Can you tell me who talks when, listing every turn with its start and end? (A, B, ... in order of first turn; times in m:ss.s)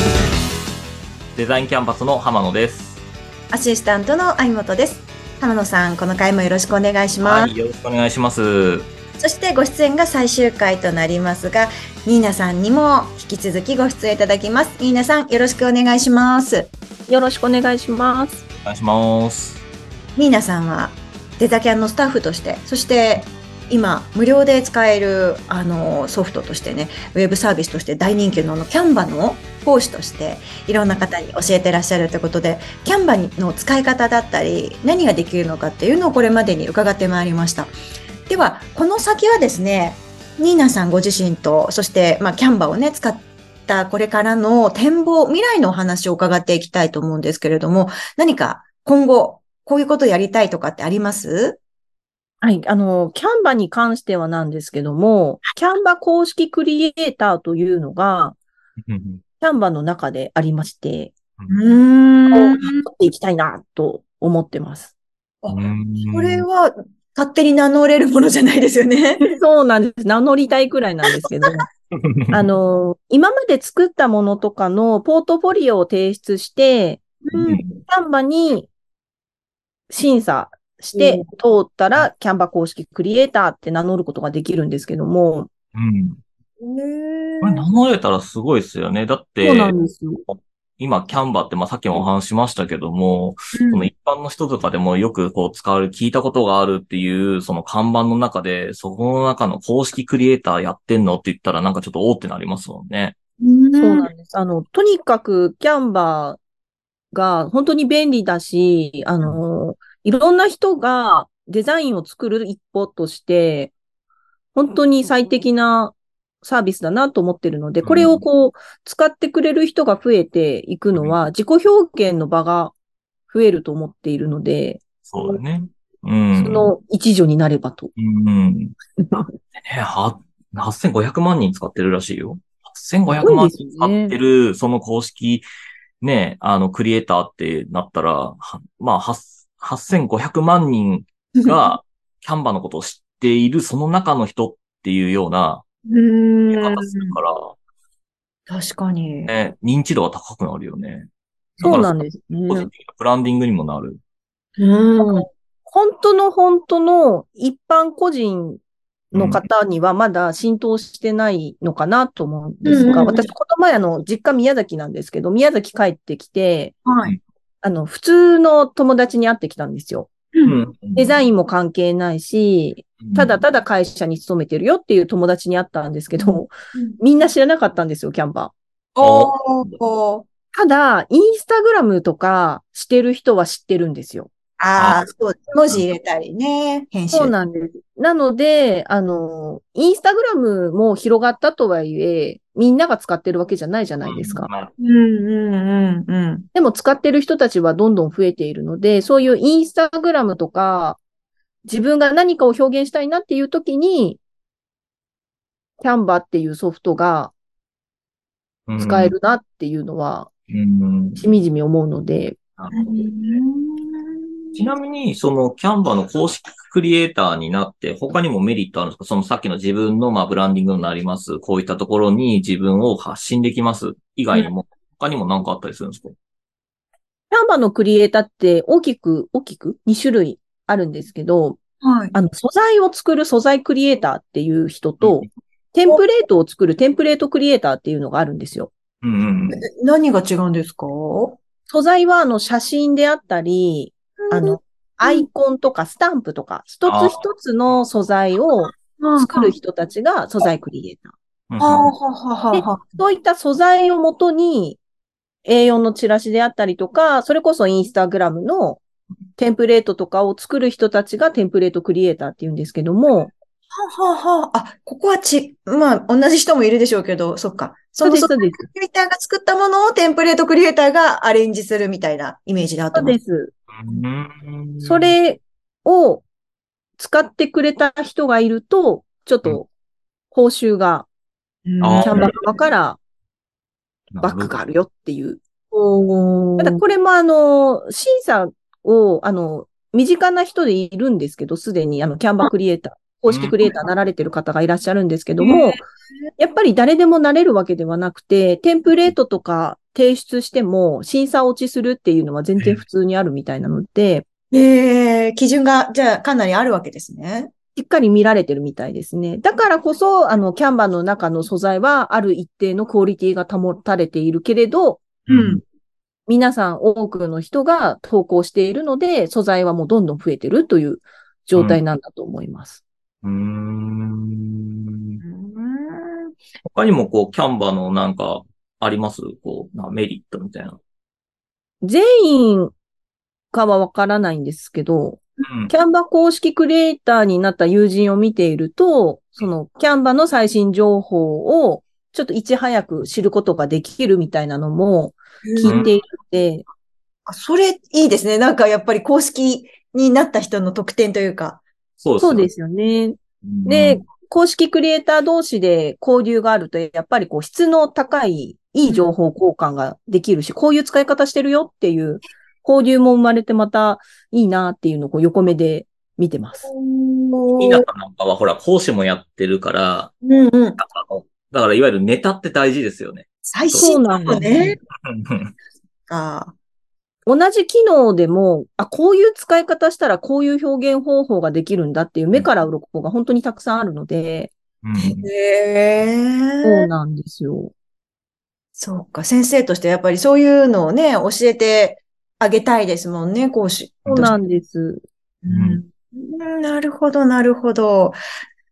0:01.4-0:03.0 A
0:03.5-0:07.5 B
0:07.2-0:08.9 A
0:09.2-0:16.7 B
0:17.1-0:18.4 C
0:18.7-0:19.6 A
0:20.2-0:37.7 B
0:38.3-0:51.6 B
0:52.4-0:58.4 C
0:58.9-0:59.2 A
0:59.4-1:01.1 C
1:01.5-1:02.8 B
1:02.3-1:04.9 C
1:05.4-1:09.3 B
1:05.5-1:06.5 A
1:09.2-1:11.7 C
1:12.0-1:12.4 A
1:12.3-1:17.0 C
1:17.2-1:17.8 B
1:17.3-1:17.6 A
1:17.9-1:18.7 C
1:19.9-1:25.5 C
1:20.9-1:21.3 B
1:25.8-1:26.2 A
1:26.6-1:27.7 B
1:27.4-1:29.8 A
1:29.4-1:30.2 C
1:30.3-1:43.2 A
1:33.6-1:33.9 B
1:43.4-1:44.1 B
1:43.8-1:46.4 C
1:47.1-1:53.7 C
1:54.5-2:02.7 C
1:57.8-1:58.2 A
2:00.9-2:01.2 A
2:03.3-2:05.4 C
2:05.1-2:06.7 A
2:06.4-2:07.9 C
2:08.0-2:08.8 A
2:09.6-2:15.4 A
2:13.2-2:14.2 C
2:16.0-2:25.6 A
2:25.9-2:27.2 B
2:26.5-2:27.6 A
2:28.5-2:29.3 B
2:29.3-2:31.1 A
2:31.6-2:32.0 A
2:31.6-2:32.7 C
2:32.5-2:34.0 A
2:34.6-2:35.3 B
2:35.0-2:38.6 C
2:39.1-2:46.8 C
2:39.1-2:39.4 A
2:42.6-2:43.3 B
2:46.8-2:47.1 B
2:47.6-2:50.1 C
2:50.4-2:51.1 A
2:51.0-2:58.5 C
2:53.0-2:53.4 A
2:56.2-2:57.0 B
2:59.0-3:00.3 B
2:59.0-2:59.8 A
3:00.5-3:04.3 C
3:04.6-3:07.4 B
3:04.8-3:05.0 A
3:07.1-3:14.5 C
3:14.0-3:14.7 A
3:14.8-3:16.5 B
3:16.5-3:21.0 C
3:21.7-3:24.2 C
3:25.8-3:27.3 C
3:28.7-3:29.2 A
3:28.8-3:30.3 C
3:30.5-3:31.3 A
3:31.2-3:32.4 C
3:32.6-3:33.4 A
3:32.7-3:34.6 B
3:34.6-3:46.1 A
3:47.3-3:51.6 C
3:51.8-3:52.2 B
3:52.1-3:58.7 C
3:55.0-3:55.3 A
3:59.0-3:59.6 A
3:59.5-4:01.4 B
4:01.7-4:11.1 C
4:04.2-4:05.3 B
4:06.8-4:07.2 A
4:08.8-4:09.6 B
4:11.5-4:11.9 A
4:11.6-4:12.7 B
4:12.5-4:14.8 C
4:15.4-4:18.8 C
4:19.4-4:23.3 C
4:23.8-4:33.2 B
4:28.0-4:28.7 C
4:32.9-4:33.5 C
4:33.7-4:35.2 A
4:34.8-4:36.2 C
4:37.0-4:39.7 C
4:40.3-4:41.1 C
4:41.7-4:42.6 B
4:41.8-4:42.4 A
4:42.0-4:43.0 C
4:44.1-4:44.6 A
4:44.2-4:45.4 C
4:45.7-4:46.8 B
4:46.6-4:55.8 C
4:53.3-4:53.6 A
4:55.4-4:55.9 B
4:56.4-5:04.3 C
5:02.6-5:02.8 A
5:04.5-5:07.5 B
5:07.8-5:15.0 C
5:15.3-5:15.6 B
5:15.3-5:15.6 A
5:16.3-5:22.8 C
5:21.6-5:21.8 A
5:23.2-5:25.2 A
5:25.2-5:26.3 B
5:26.7-5:30.8 A
5:31.8-5:32.8 C
5:33.5-5:46.6 C
5:35.4-5:35.7 A
5:45.4-5:45.9 B
5:45.6-5:45.9 A
5:47.3-5:51.6 B
5:52.0-5:52.5 A
5:52.2-6:06.7 C
5:53.4-5:54.1 A
5:58.9-5:59.1 B
6:06.6-6:07.8 B
6:07.6-6:10.1 A
6:10.2-6:10.8 B
6:10.8-6:14.5 A
6:13.4-6:14.8 B
6:13.7-6:14.8 C
6:15.1-6:15.5 A
6:16.1-6:16.6 B
6:17.3-6:24.5 C
6:24.8-6:25.3 A
6:25.0-6:26.9 B
6:26.6-6:27.7 C
6:28.8-6:34.4 B
6:34.0-6:34.4 A
6:34.1-6:35.0 C
6:35.4-6:38.2 B
6:35.5-6:35.8 A